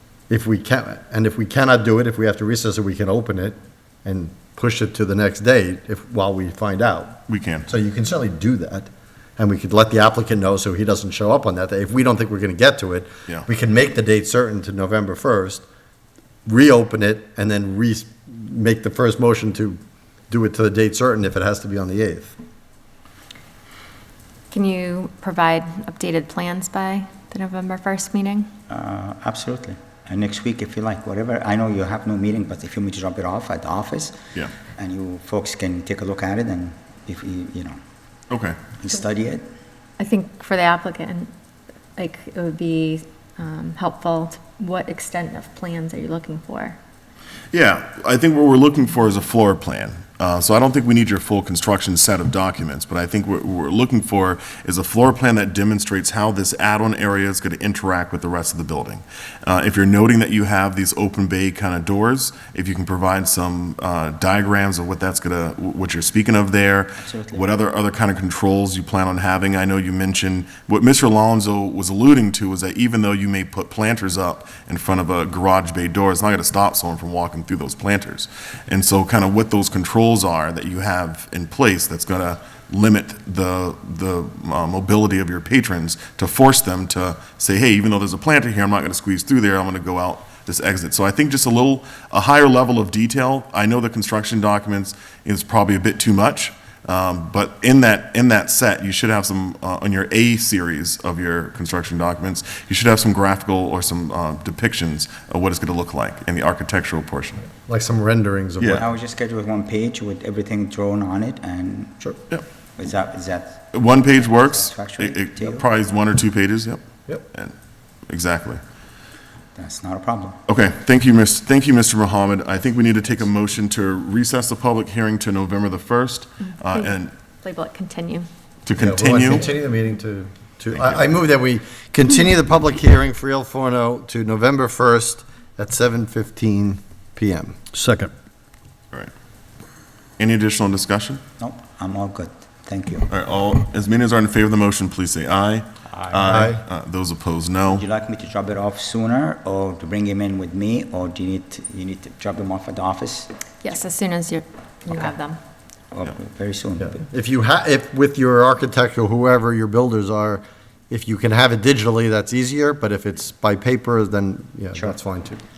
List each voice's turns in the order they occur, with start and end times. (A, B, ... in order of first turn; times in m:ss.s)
0:00.3-0:15.6 A
0:07.3-0:07.7 B
0:16.4-0:22.4 A
0:24.5-0:28.5 C
0:28.7-0:37.8 D
0:38.3-0:38.6 B
0:38.8-0:39.5 D
0:40.0-0:41.3 C
0:42.0-0:46.8 C
0:47.5-1:47.4 B
1:07.0-1:07.5 D
1:47.6-1:48.8 A
1:48.7-1:52.1 D
1:52.8-1:55.6 D
1:53.7-1:57.5 B
1:58.1-1:58.6 B
1:59.6-2:00.4 D
2:00.5-2:07.1 B
2:06.6-2:08.3 C
2:08.6-2:09.5 B
2:08.8-2:18.1 A
2:10.7-2:11.1 B
2:20.2-2:21.2 B
2:21.4-2:23.1 D
2:23.1-2:27.8 B
2:26.0-2:26.4 D
2:26.3-2:26.6 A
2:27.6-2:33.3 D
2:33.6-2:35.4 C
2:35.9-2:37.0 D
2:36.8-2:45.4 A